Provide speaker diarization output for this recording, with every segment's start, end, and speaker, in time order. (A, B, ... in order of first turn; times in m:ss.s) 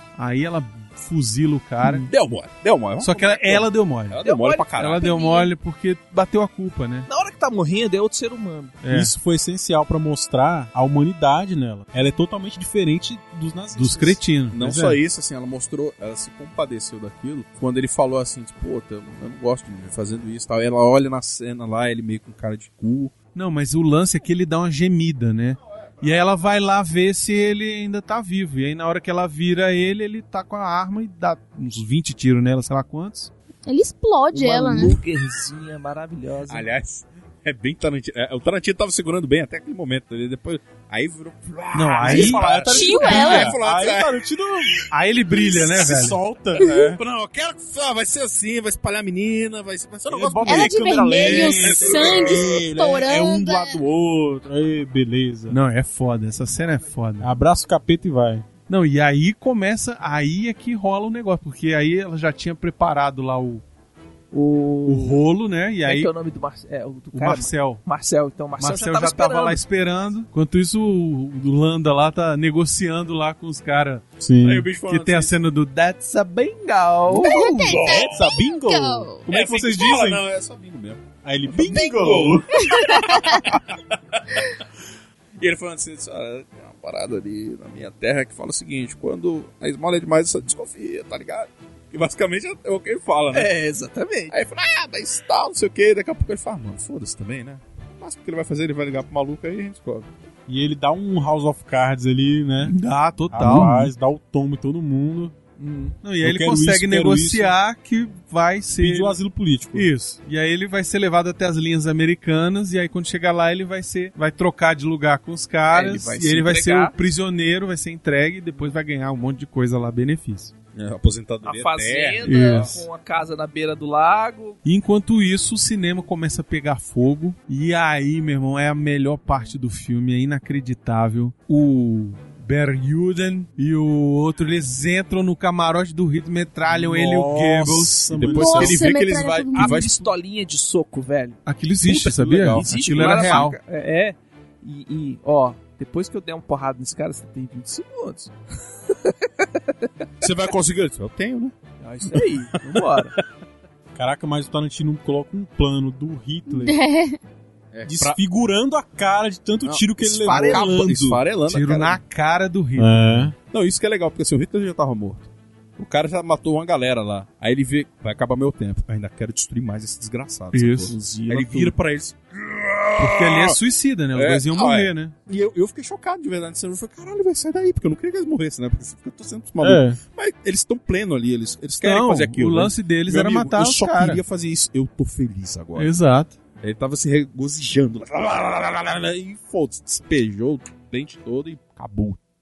0:00.2-0:02.1 A
0:02.1-0:05.0 B
0:03.0-0:04.2 A
0:04.2-0:04.7 C
0:04.7-0:07.1 A
0:05.0-0:05.5 D
0:07.1-0:08.8 C
0:08.8-0:09.1 A
0:08.9-0:14.2 E
0:13.7-0:15.0 A
0:14.5-0:23.1 B
0:23.3-0:33.3 A
0:33.6-0:35.0 D
0:34.3-0:36.7 C
0:36.5-0:44.9 B
0:41.7-0:43.5 A
0:42.0-0:44.9 E
0:42.6-0:43.5 D
0:44.9-0:46.2 A
0:45.5-0:45.9 B
0:45.7-0:47.0 E
0:46.9-0:52.5 B
0:50.1-0:55.6 E
0:50.4-0:53.8 D
0:55.5-0:57.3 A
0:57.2-0:58.4 E
0:58.7-1:03.6 A
1:04.3-1:05.2 C
1:04.8-1:06.1 A
1:05.8-1:09.6 C
1:07.1-1:07.8 A
1:08.6-1:14.1 A
1:14.2-1:14.7 E
1:14.4-1:15.3 B
1:14.8-1:16.6 A
1:16.3-1:17.4 C
1:17.1-1:17.4 A
1:17.2-1:19.2 D
1:17.3-1:20.2 E
1:17.5-1:18.2 B
1:19.3-1:24.6 B
1:21.2-1:22.5 E
1:22.6-1:23.4 D
1:25.4-1:33.5 B
1:33.3-1:34.4 C
1:34.3-1:40.1 B
1:40.5-1:42.7 E
1:42.6-1:43.9 A
1:43.3-1:45.3 E
1:45.6-1:46.0 C
1:46.0-1:49.2 A
1:46.2-1:47.5 E
1:48.8-1:49.9 E
1:49.7-2:00.5 A
1:55.7-1:56.9 C
2:00.7-2:02.8 B
2:01.4-2:04.6 C
2:02.2-2:02.8 A
2:04.6-2:18.2 A
2:16.7-2:18.8 E
2:18.1-2:20.1 B
2:18.3-2:19.9 D
2:19.5-2:21.4 C
2:21.4-2:23.6 A
2:21.8-2:23.5 B
2:22.5-2:28.3 C
2:28.9-2:29.9 C
2:30.2-2:31.5 B
2:31.8-2:33.2 C
2:32.7-2:33.2 B
2:33.9-2:36.8 E
2:36.5-2:37.2 D
2:37.7-2:38.2 B
2:37.9-2:41.2 E
2:39.6-2:42.0 B
2:40.3-2:40.8 C
2:41.4-2:43.3 A
2:42.8-2:43.3 E
2:43.5-2:53.6 B
2:50.5-2:50.9 A
2:50.9-2:51.7 C
2:53.0-2:55.1 A
2:54.1-3:05.9 B
2:59.6-3:00.0 E
3:01.8-3:04.2 A
3:05.8-3:06.3 A
3:06.6-3:12.2 B